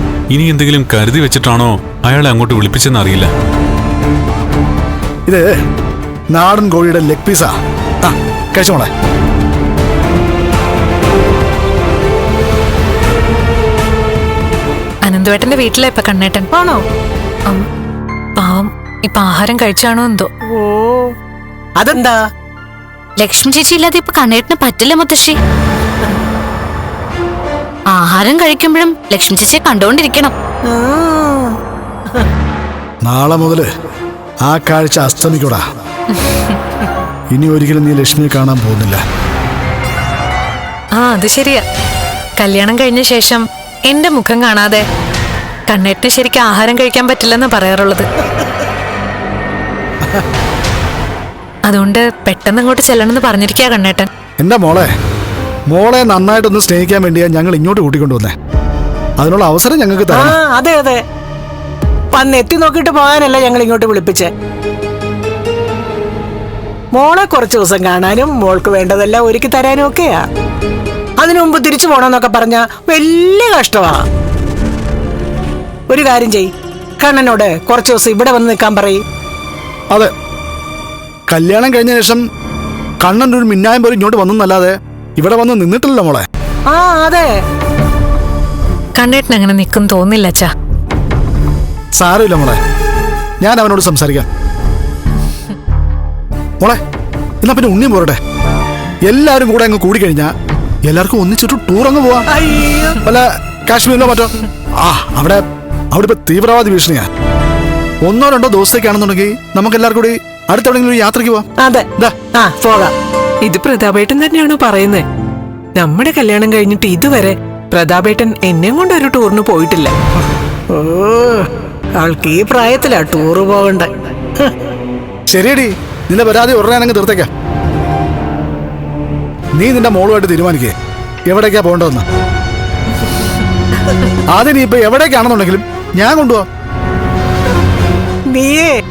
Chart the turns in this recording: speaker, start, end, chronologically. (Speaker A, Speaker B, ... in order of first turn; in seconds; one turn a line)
Speaker A: 0.3-3.3
Speaker B: 5.3-5.6
Speaker B: 6.3-7.5
Speaker B: 8.0-8.9
Speaker C: 15.1-16.5
Speaker D: 16.5-16.8
Speaker C: 18.4-20.3
Speaker D: 20.5-21.1
Speaker D: 21.8-22.2
Speaker E: 23.2-25.4
Speaker E: 27.9-30.3
Speaker D: 30.6-31.6
Speaker B: 33.0-33.7
Speaker B: 34.5-35.6
Speaker B: 37.3-39.0
Speaker C: 41.0-41.6
Speaker C: 42.4-44.8
Speaker C: 45.7-48.1
Speaker C: 51.7-54.1
Speaker B: 54.4-54.9
Speaker B: 55.7-58.3
Speaker B: 59.2-60.4
Speaker D: 60.1-61.0
Speaker D: 62.1-64.3
Speaker D: 66.9-70.2
Speaker D: 71.2-74.0
Speaker D: 75.9-79.0
Speaker B: 81.3-82.2
Speaker B: 83.0-86.2
Speaker D: 86.7-87.3
Speaker C: 89.0-90.5
Speaker B: 92.0-92.6
Speaker B: 93.4-94.2
Speaker B: 97.4-98.2
Speaker B: 99.1-100.3
Speaker B: 100.8-102.2
Speaker D: 102.3-103.0
Speaker B: 103.0-107.1
Speaker B: 108.0-111.5
Speaker D: 111.6-112.9
Speaker F: 113.4-115.0
Speaker F: 115.8-119.9
Speaker D: 116.9-117.3
Speaker D: 120.7-124.5
Speaker B: 125.3-127.3
Speaker B: 129.6-130.7
Speaker B: 131.3-132.0
Speaker B: 134.3-136.4
Speaker D: 138.3-138.7